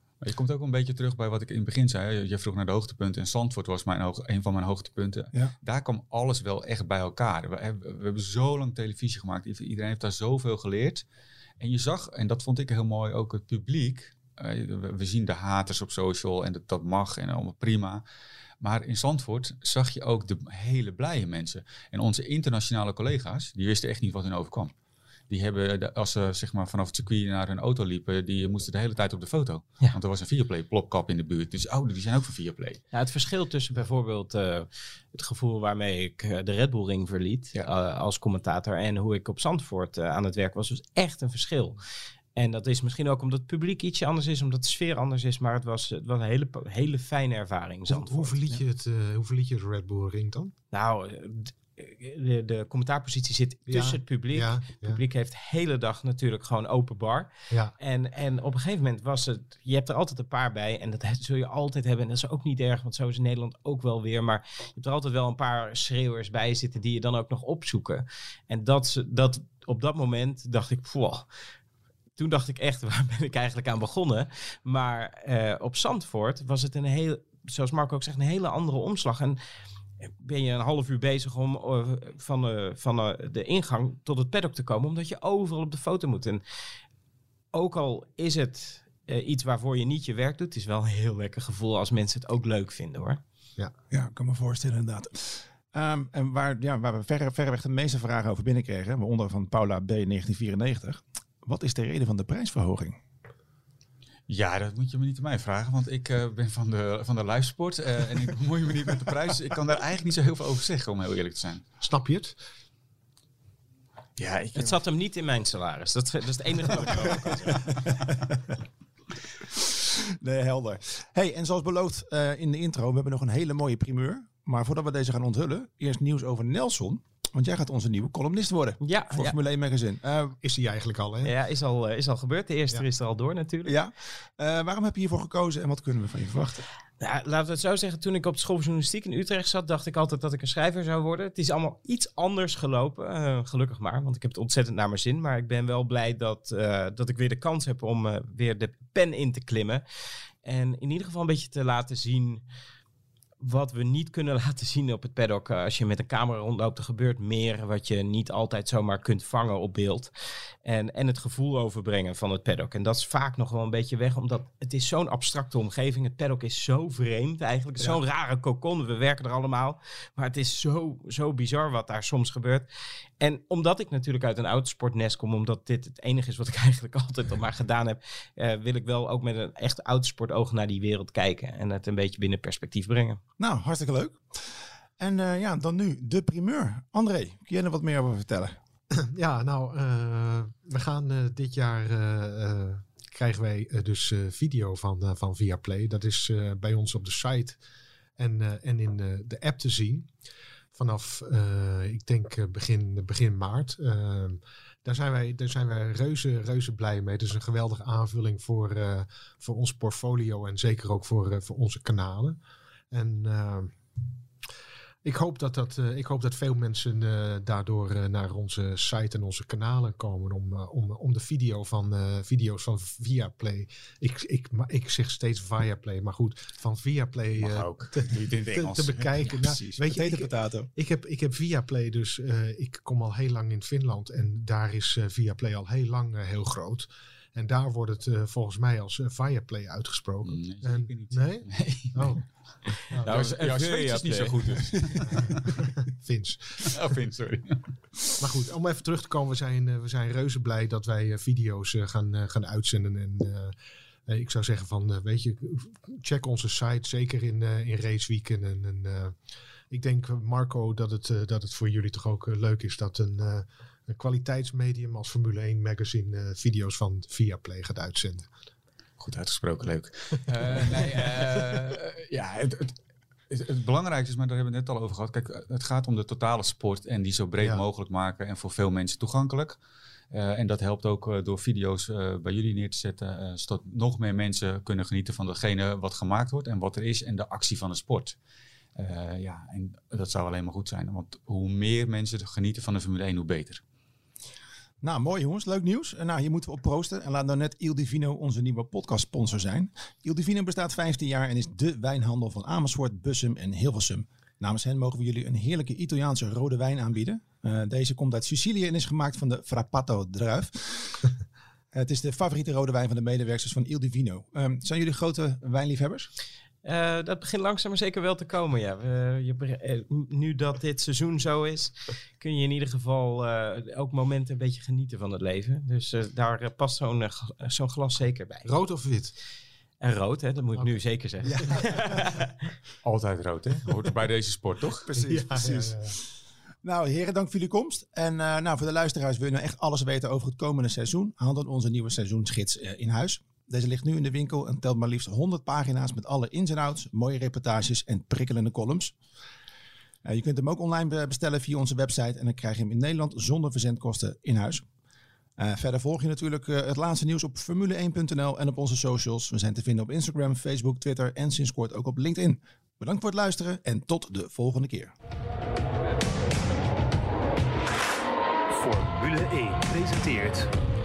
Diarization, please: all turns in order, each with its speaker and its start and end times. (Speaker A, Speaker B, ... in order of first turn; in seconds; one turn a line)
Speaker A: 0.2-11.0
Speaker A: 11.6-18.0
Speaker A: 18.6-24.7
Speaker A: 25.3-32.8
Speaker B: 32.9-41.8
Speaker B: 42.4-48.4
Speaker C: 47.9-50.5
Speaker B: 50.7-71.3
Speaker C: 53.7-55.0
Speaker B: 72.2-79.4
Speaker B: 80.0-86.4
Speaker B: 87.5-93.2
Speaker D: 93.9-103.0
Speaker A: 104.3-111.6
Speaker C: 111.8-112.4
Speaker A: 114.2-114.8
Speaker B: 114.5-117.6
Speaker D: 119.5-130.4
Speaker B: 128.8-129.4
Speaker C: 130.4-131.3
Speaker B: 131.2-133.7
Speaker D: 133.7-136.7
Speaker B: 137.0-149.8
Speaker B: 150.4-152.4
Speaker B: 153.4-160.1
Speaker B: 160.6-172.7
Speaker B: 173.2-183.2
Speaker D: 183.4-188.6
Speaker C: 189.1-197.6
Speaker C: 198.2-200.1
Speaker C: 200.8-212.4
Speaker C: 212.9-213.7
Speaker C: 215.0-242.2
Speaker A: 227.4-229.3
Speaker D: 229.3-230.7
Speaker A: 240.2-242.3
Speaker B: 243.0-245.0
Speaker A: 243.0-245.6
Speaker C: 245.9-246.8
Speaker A: 246.7-248.1
Speaker C: 248.2-253.6
Speaker C: 254.1-259.2
Speaker C: 259.7-268.3
Speaker A: 269.0-272.8
Speaker C: 270.5-271.1
Speaker A: 273.3-279.6
Speaker A: 280.1-288.2
Speaker A: 288.8-293.6
Speaker D: 294.8-311.1
Speaker D: 311.7-316.1
Speaker B: 316.6-328.5
Speaker C: 328.4-329.1
Speaker B: 329.8-332.4
Speaker D: 331.2-331.9
Speaker A: 332.8-334.9
Speaker D: 334.9-336.0
Speaker C: 335.1-336.0
Speaker D: 336.6-348.9
Speaker D: 350.1-354.6
Speaker D: 355.4-364.9
Speaker E: 368.5-370.5